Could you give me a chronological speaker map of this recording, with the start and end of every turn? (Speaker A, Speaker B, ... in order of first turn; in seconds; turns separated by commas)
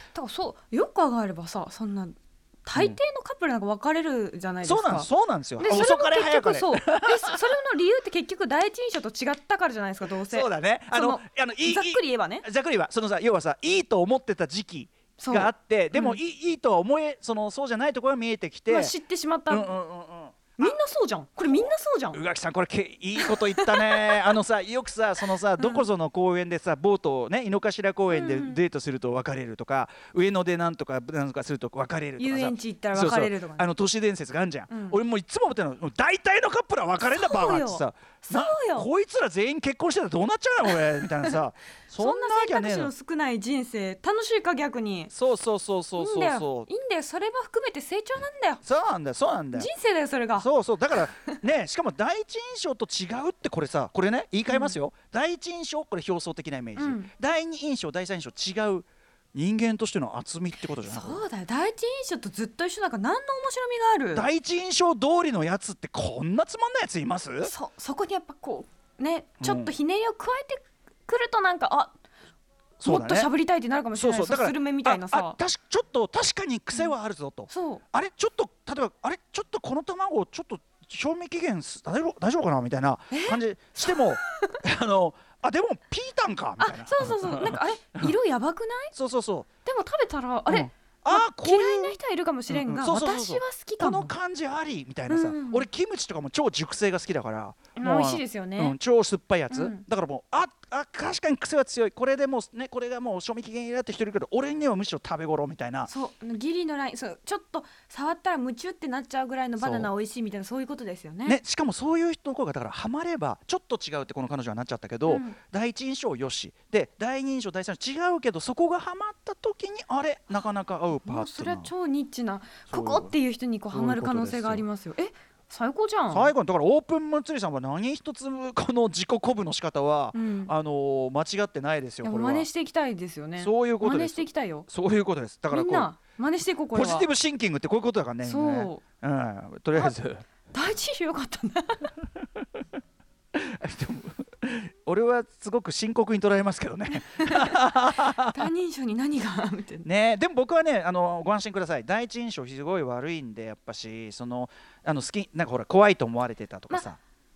Speaker A: 0.1-12.4, Speaker B: 2.7-3.0, Speaker B: 4.6-7.4, Speaker B: 10.1-18.9, Speaker A: 15.2-16.2, Speaker A: 18.7-19.7, Speaker B: 19.5-20.8, Speaker A: 20.6-22.2, Speaker B: 21.5-42.9, Speaker A: 23.2-24.2, Speaker A: 25.6-25.9, Speaker A: 28.1-28.6, Speaker A: 32.2-33.7, Speaker A: 34.7-35.0, Speaker A: 37.0-38.9, Speaker A: 42.0-45.1, Speaker B: 45.1-46.7, Speaker A: 46.0-48.6, Speaker B: 48.6-49.7, Speaker A: 49.5-51.4, Speaker B: 50.4-61.2, Speaker A: 54.5-54.8, Speaker A: 56.8-57.1, Speaker A: 60.8-64.3, Speaker B: 64.1-67.5, Speaker A: 67.4-72.0, Speaker B: 69.4-69.7, Speaker B: 72.8-73.3, Speaker A: 72.8-75.4, Speaker B: 73.9-88.1, Speaker A: 77.5-77.8, Speaker A: 83.1-84.6, Speaker A: 86.6-88.9, Speaker B: 88.9-89.5, Speaker A: 89.6-94.1, Speaker B: 90.5-92.0, Speaker B: 92.5-105.9, Speaker A: 95.1-95.7, Speaker A: 97.7-98.8, Speaker A: 99.5-99.8, Speaker A: 105.9-111.4, Speaker B: 109.6-109.9, Speaker B: 111.2-121.7, Speaker A: 115.1-115.4, Speaker A: 121.0-126.3, Speaker B: 122.7-123.1, Speaker B: 123.7-124.7, Speaker B: 126.1-132.5, Speaker A: 130.1-130.5, Speaker A: 132.0-134.7, Speaker B: 133.4-135.9, Speaker A: 135.5-137.1, Speaker B: 136.7-140.2, Speaker A: 138.2-138.8, Speaker A: 140.5-141.9, Speaker B: 143.3-148.5, Speaker A: 146.9-149.8, Speaker B: 149.8-157.0